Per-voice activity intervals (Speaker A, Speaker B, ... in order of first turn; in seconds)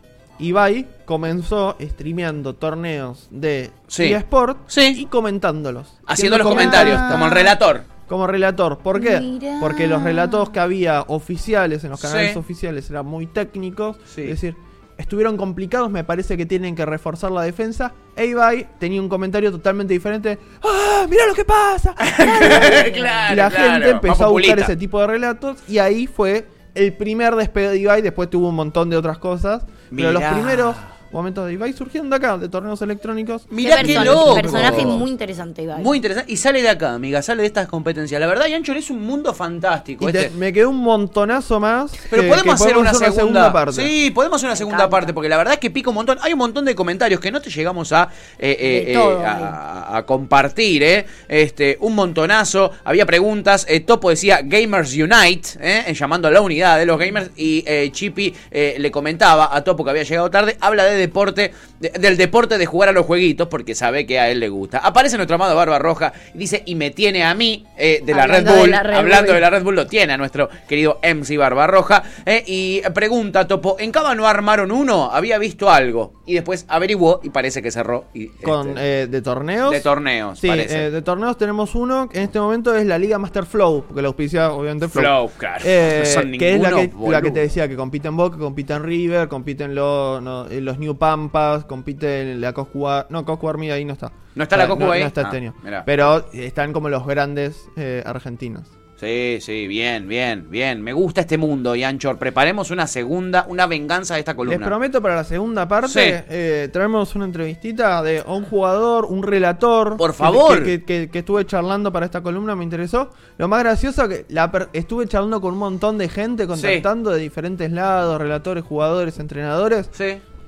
Speaker A: 0.4-7.5, 8.0-35.0, 40.0-43.9, 78.4-79.8, 80.4-98.7, 104.4-119.9
Speaker B: 3.9-5.0, 6.1-7.9, 12.0-12.4, 22.0-24.7, 29.9-30.9, 33.5-35.0, 35.7-40.3, 42.1-78.8, 79.7-80.9, 84.8-87.4, 94.3-96.0, 99.0-104.7, 105.8-106.2, 110.0-110.8, 116.5-116.8, 119.9-120.2
Speaker C: 6.5-7.5, 8.9-10.5, 22.9-23.2, 33.6-36.0, 44.6-45.1, 48.6-49.5, 68.1-69.4